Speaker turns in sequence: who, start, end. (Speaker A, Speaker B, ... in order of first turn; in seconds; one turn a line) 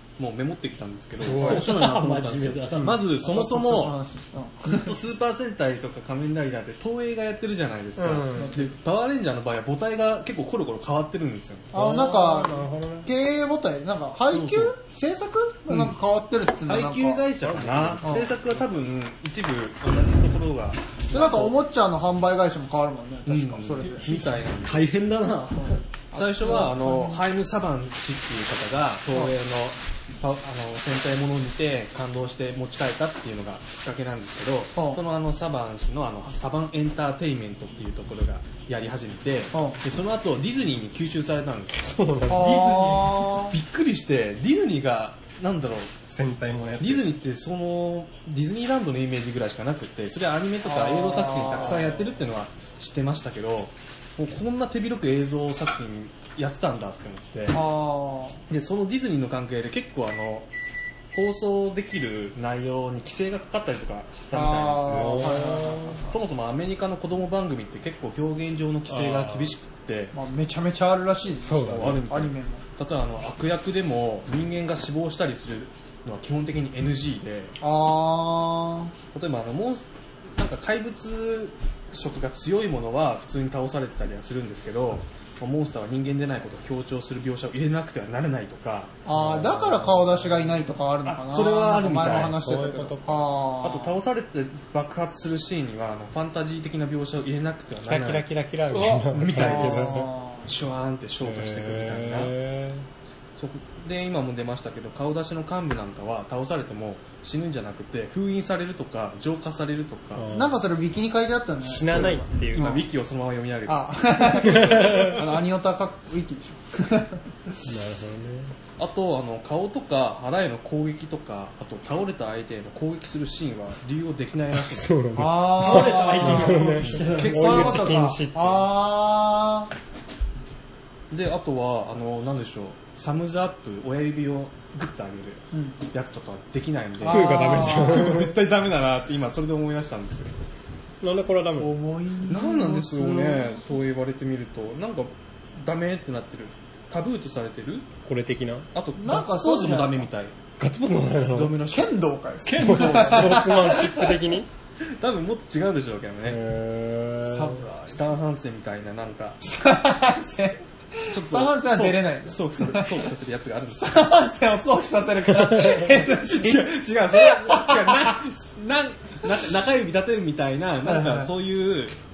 Speaker A: 0.2-4.0
Speaker B: 1.2-1.7
Speaker C: 1.3-3.0
Speaker D: 3.2-5.0
Speaker A: 4.7-11.9
Speaker B: 8.0-8.6
Speaker D: 8.4-8.7
Speaker D: 11.7-17.2
Speaker B: 11.7-13.1
Speaker A: 14.3-14.7
Speaker A: 16.7-21.6
Speaker B: 17.4-18.6
Speaker D: 18.0-18.3
Speaker D: 21.1-24.1
Speaker A: 23.3-24.9
Speaker C: 24.0-25.8
Speaker D: 26.1-27.2
Speaker A: 26.1-41.9
Speaker C: 26.4-26.7
Speaker D: 34.8-35.0
Speaker D: 39.5-39.8
Speaker B: 41.8-42.6
Speaker D: 42.3-43.6
Speaker C: 42.3-43.2
Speaker A: 43.2-45.9
Speaker B: 46.0-47.1
Speaker A: 46.8-57.6
Speaker D: 50.6-51.9
Speaker D: 57.5-58.4
Speaker A: 58.5-60.5
Speaker A: 61.1-70.2
Speaker D: 64.3-66.2
Speaker B: 64.9-66.0
Speaker B: 68.9-69.6
Speaker D: 70.1-72.6
Speaker B: 71.4-72.0
Speaker A: 71.7-77.6
Speaker D: 77.6-78.9
Speaker A: 79.1-89.0
Speaker D: 89.0-94.0
Speaker B: 89.1-90.4
Speaker A: 91.0-92.7
Speaker B: 92.1-93.2
Speaker A: 93.6-102.3
Speaker B: 97.8-100.1
Speaker C: 98.7-99.1
Speaker D: 99.3-100.5
Speaker B: 101.2-102.9
Speaker A: 103.3-110.3
Speaker B: 110.2-110.6
Speaker D: 110.3-112.8
Speaker B: 111.6-112.9
Speaker A: 112.5-115.1
Speaker D: 113.7-117.6
Speaker B: 114.5-115.2
Speaker B: 117.6-118.5
Speaker A: 118.8-125.0
Speaker B: 124.6-128.7
Speaker D: 125.2-129.7
Speaker C: 125.5-127.8
Speaker A: 126.6-128.0
Speaker A: 131.1-140.3
Speaker D: 135.5-135.8
Speaker D: 137.0-138.3
Speaker B: 137.1-138.3
Speaker B: 141.0-141.7
Speaker D: 141.6-143.8
Speaker A: 142.3-147.9
Speaker B: 148.1-148.7
Speaker A: 148.7-150.3
Speaker D: 149.0-150.1
Speaker B: 150.6-151.6
Speaker A: 151.3-152.0
Speaker D: 151.7-154.2
Speaker C: 152.4-153.6
Speaker B: 152.5-154.5
Speaker A: 155.0-156.4
Speaker B: 156.3-157.6
Speaker D: 157.3-158.1
Speaker A: 157.3-159.4
Speaker D: 159.4-163.1
Speaker A: 161.1-164.2
Speaker D: 163.8-168.2
Speaker A: 165.4-172.0
Speaker D: 170.8-171.3